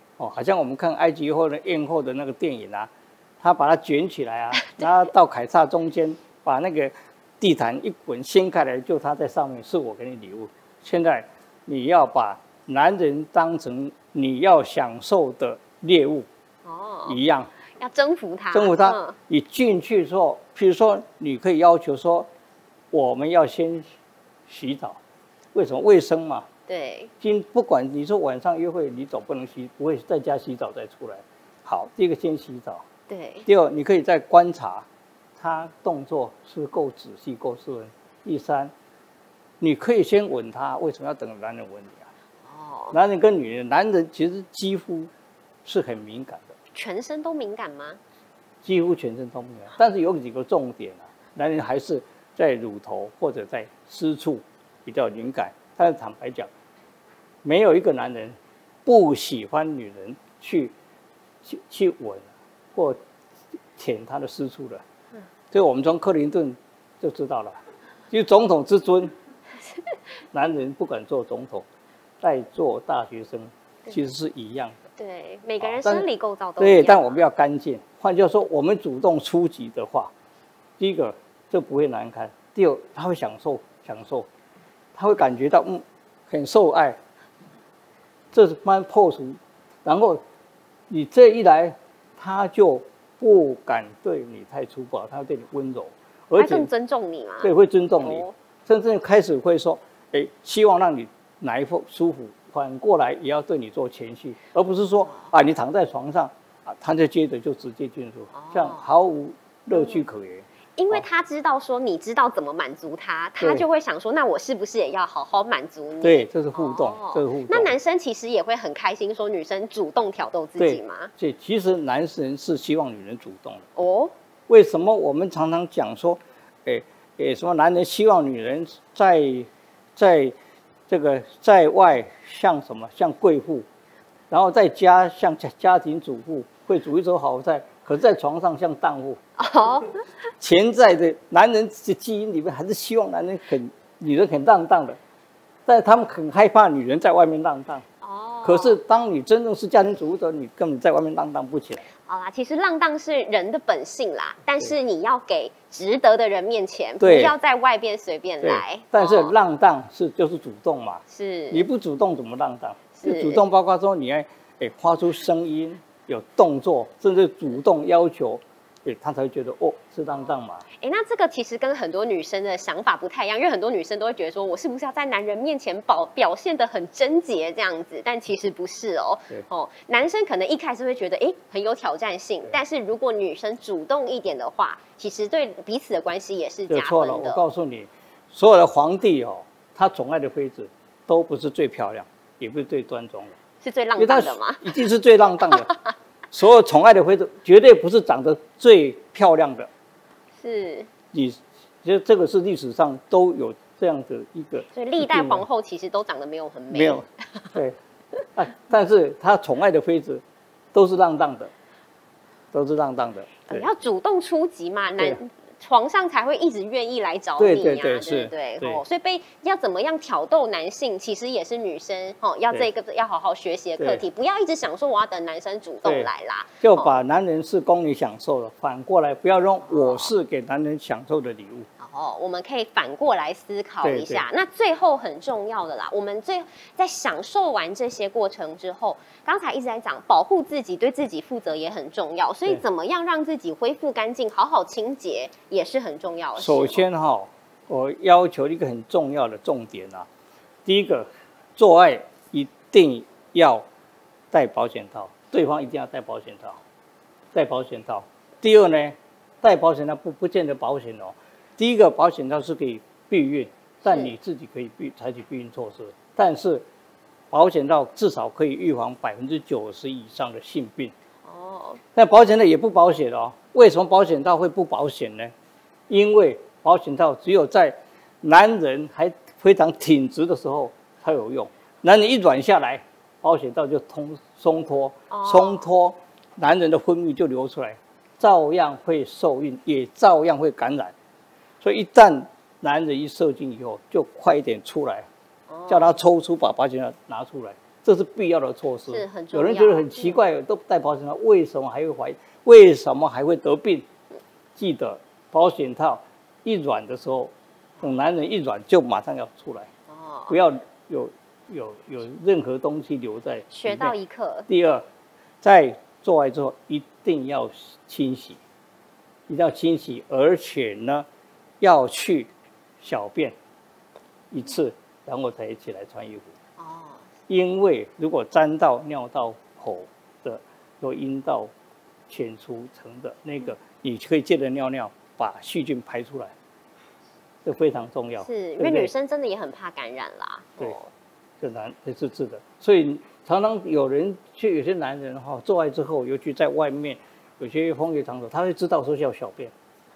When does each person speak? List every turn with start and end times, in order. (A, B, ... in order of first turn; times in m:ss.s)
0:00.2-0:16.3 A
0:16.6-0:17.2 B
0:17.1-0:17.5 A
0:17.8-0:19.2 B
0:18.5-0:22.3 A
0:22.9-0:23.9 A
0:24.5-0:25.0 A
0:25.5-0:26.5 A
0:26.7-0:27.1 B
0:27.2-0:32.8 A
0:33.1-0:33.5 B
0:33.5-0:34.9 A
0:35.4-0:38.7 A
0:39.6-0:42.1 A
0:42.5-0:43.0 B
0:42.9-0:45.1 A
0:45.6-0:46.6 A
0:46.7-0:48.0 B
0:48.6-0:56.5 A
0:57.4-1:00.7 A
1:01.4-1:03.0 A
1:03.8-1:04.8 A
1:05.5-1:07.6 A
1:08.1-1:09.1 A
1:09.6-1:10.0 B
1:10.3-1:11.7 A
1:12.2-1:14.9 A
1:15.0-1:17.2 B
1:15.6-1:16.0 A
1:16.6-1:20.1 A
1:20.8-1:24.3 A
1:25.0-1:27.0 A
1:28.3-1:30.2 A
1:30.9-1:36.7 A
1:36.4-1:38.4 B
1:37.4-1:51.0 A
1:48.3-1:48.9 B
1:49.7-1:50.0 B
1:50.8-2:01.1 B
1:53.4-1:53.6 A
1:56.0-1:57.8 A
2:00.6-2:03.7 A
2:03.8-2:04.1 B
2:04.5-2:10.4 A
2:10.9-2:13.7 A
2:14.3-2:19.7 A
2:19.4-2:20.1 B
2:20.4-2:25.0 A
2:25.7-2:27.8 A
2:28.0-2:28.8 B
2:28.4-2:31.8 A
2:32.0-2:39.3 B
2:37.0-2:37.3 A
2:38.4-2:50.6 A
2:41.1-2:41.7 B
2:43.0-2:43.4 B
2:50.7-3:07.4 B
3:06.7-3:13.4 A
3:13.6-3:14.9 B
3:14.0-3:15.7 A
3:15.5-3:15.9 B
3:16.3-3:19.7 A
3:20.4-3:20.9 B
3:21.1-3:25.4 A
3:24.7-3:27.5 B
3:26.7-3:27.8 A
3:28.4-3:30.2 A
3:30.7-3:31.5 A
3:32.5-3:33.7 A
3:33.5-3:47.0 B
3:37.4-3:38.8 A
3:43.8-3:44.0 A
3:45.8-3:51.7 A
3:49.7-3:50.1 B
3:51.8-4:06.8 B
3:53.8-3:54.2 A
4:06.4-4:10.1 A
4:10.7-4:13.6 A
4:14.3-4:16.6 A
4:17.3-4:26.7 A
4:23.8-4:24.2 B
4:27.3-4:30.9 A
4:31.2-4:31.8 B
4:32.0-4:35.3 A
4:35.9-4:50.9 A
4:45.1-4:45.7 B
4:51.6-4:55.1 A
4:55.5-4:56.0 B
4:55.7-5:03.9 A
4:58.9-5:00.2 B
5:04.6-5:09.7 A
5:09.9-5:10.4 B
5:10.3-5:13.9 A
5:13.5-5:14.5 B
5:14.5-5:14.8 A
5:15.4-5:18.4 A
5:19.3-5:21.1 A
5:21.6-5:23.4 A
5:24.3-5:26.3 A
5:26.6-5:27.1 B
5:27.3-5:31.5 A
5:32.1-5:36.3 A
5:37.4-5:38.9 A
5:38.2-5:40.9 B
5:41.4-5:49.5 A